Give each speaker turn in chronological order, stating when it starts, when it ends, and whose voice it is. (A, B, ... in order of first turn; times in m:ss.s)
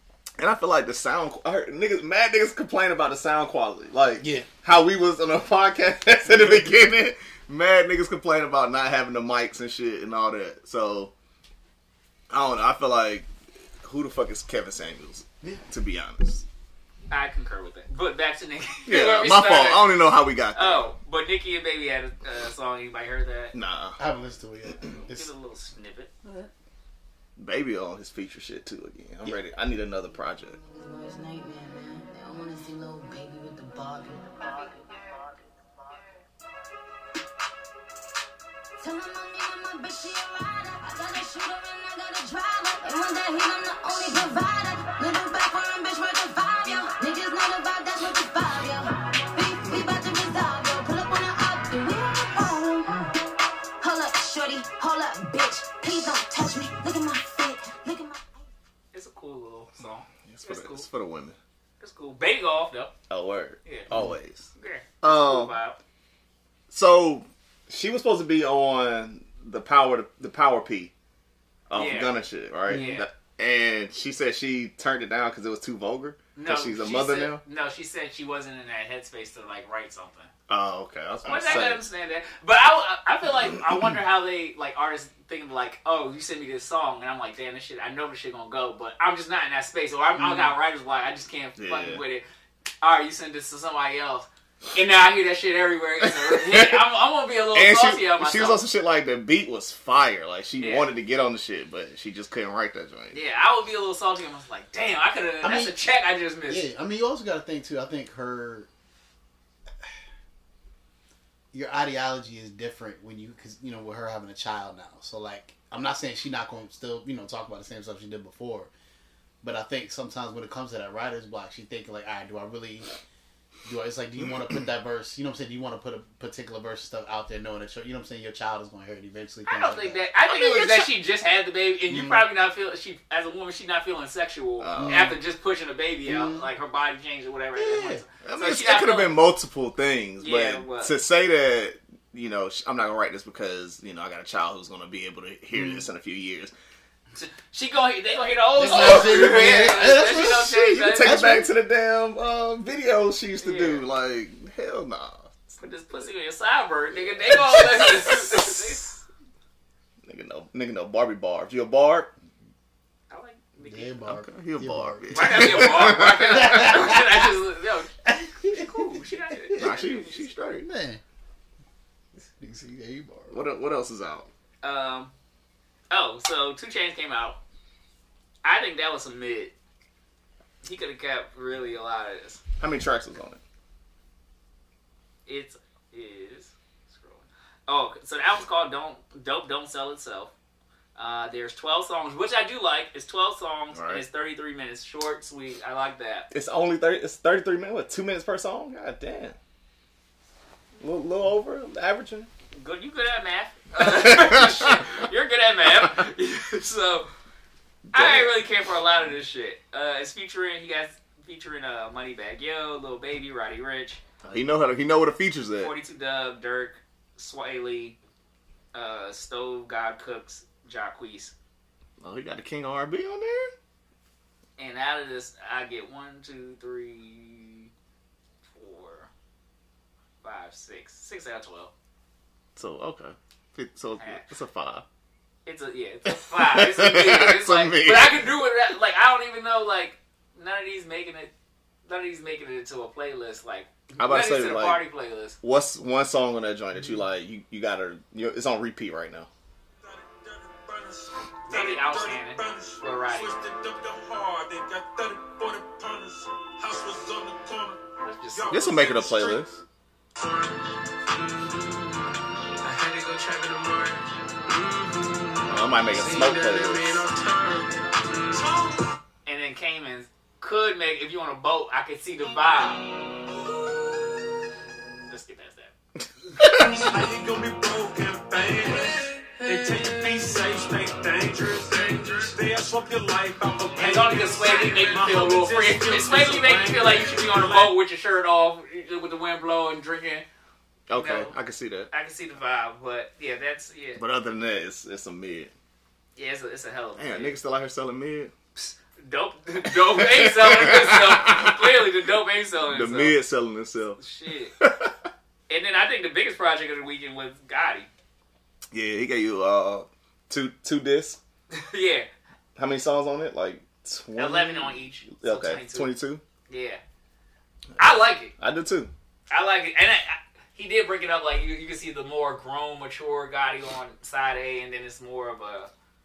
0:00.4-0:11.1 A
0:04.2-0:04.5 B
0:06.3-0:06.7 B
0:12.3-0:13.3 A
0:13.8-0:16.4 A
0:17.1-0:19.8 C
0:18.8-0:20.8 A
0:20.5-0:23.5 C
0:23.5-0:24.0 A
0:24.0-0:25.3 B
0:24.9-0:26.1 C
0:26.2-0:26.5 B
0:27.4-0:30.6 A
0:30.7-0:36.0 D
0:38.8-0:53.1 D
0:53.8-0:58.4 D
0:58.9-1:00.8 C
1:00.2-1:01.4 A
1:01.8-1:02.9 C
1:03.1-1:04.5 A
1:04.6-1:05.8 C
1:05.0-1:05.6 A
1:06.7-1:10.9 A
1:11.7-1:17.4 A
1:11.7-1:12.1 C
1:12.7-1:13.1 C
1:16.4-1:20.3 C
1:20.5-1:21.8 A
1:21.2-1:32.2 C
1:30.2-1:30.5 B
1:31.6-1:32.0 A
1:32.8-1:38.6 C
1:36.0-1:36.8 A
1:37.5-1:43.2 A
1:40.6-1:40.9 C
1:43.1-1:46.7 C
1:45.4-1:45.8 B
1:46.5-1:48.7 B
1:51.5-1:58.7 B
1:59.4-2:02.9 B
2:03.6-2:10.7 B
2:09.4-2:19.2 C
2:11.9-2:12.2 B
2:14.6-2:15.2 A
2:14.8-2:15.2 B
2:16.0-2:16.4 B
2:17.5-2:18.0 B
2:18.2-2:26.5 A
2:20.2-2:20.9 C
2:25.5-2:25.8 B
2:27.2-2:31.2 C
2:28.6-2:31.5 B
2:28.6-2:35.6 A
2:33.4-2:33.8 C
2:35.6-2:39.0 C
2:37.3-2:38.5 A
2:40.0-2:42.1 A
2:43.1-2:44.0 C
2:43.6-2:47.2 B
2:44.0-2:46.8 A
2:45.1-2:50.3 C
2:48.0-2:49.7 B
2:49.6-2:50.7 A
2:50.6-2:51.0 B
2:52.2-2:53.4 B
2:53.3-2:54.3 A
2:54.6-2:55.1 C
2:55.9-2:57.4 C
2:58.4-2:59.5 C
3:00.6-3:02.4 C
3:02.6-3:03.4 A
3:05.3-3:10.3 C
3:11.0-3:16.3 C
3:13.7-3:14.0 A
3:16.3-3:19.4 A
3:20.8-3:22.3 A
3:22.5-3:27.1 C
3:23.8-3:24.8 A
3:27.9-3:28.4 A
3:27.9-3:34.0 C
3:34.2-3:35.7 A
3:35.6-3:38.0 C
3:38.7-3:41.3 C
3:42.0-3:43.5 A
3:44.6-3:47.7 C
3:48.4-3:49.1 C
3:50.2-3:51.7 C
3:52.6-3:54.8 A
3:54.0-3:54.2 C
3:55.4-4:01.3 C
3:56.1-3:58.4 A
4:01.8-4:05.4 C
4:04.0-4:04.8 A
4:05.4-4:09.3 A
4:09.8-4:17.8 E
4:11.5-4:13.3 C
4:18.0-4:18.6 C
4:18.3-4:19.4 E
4:18.5-4:19.6 A
4:20.2-4:20.5 E
4:22.6-4:25.4 E
4:25.5-4:27.0 A
4:26.0-4:27.8 E
4:28.4-4:28.7 E
4:29.2-4:32.9 C
4:35.1-4:35.7 C
4:36.4-4:36.8 A
4:36.6-4:47.7 E
4:43.7-4:50.2 C
4:50.9-4:51.9 A
4:50.9-4:51.3 C
4:51.9-4:54.0 C
4:54.0-4:55.5 A
4:56.2-4:57.3 C
4:57.0-4:58.3 A
4:58.6-5:03.2 C
4:59.7-5:01.9 A
5:02.7-5:04.0 A
5:04.0-5:04.5 C
5:04.6-5:04.9 A
5:05.5-5:07.9 C
5:08.7-5:11.2 A
5:11.5-5:12.1 C
5:12.6-5:16.2 A
5:14.2-5:15.9 C
5:16.5-5:16.8 C
5:17.7-5:18.9 A
5:17.8-5:18.3 C
5:19.3-5:25.7 C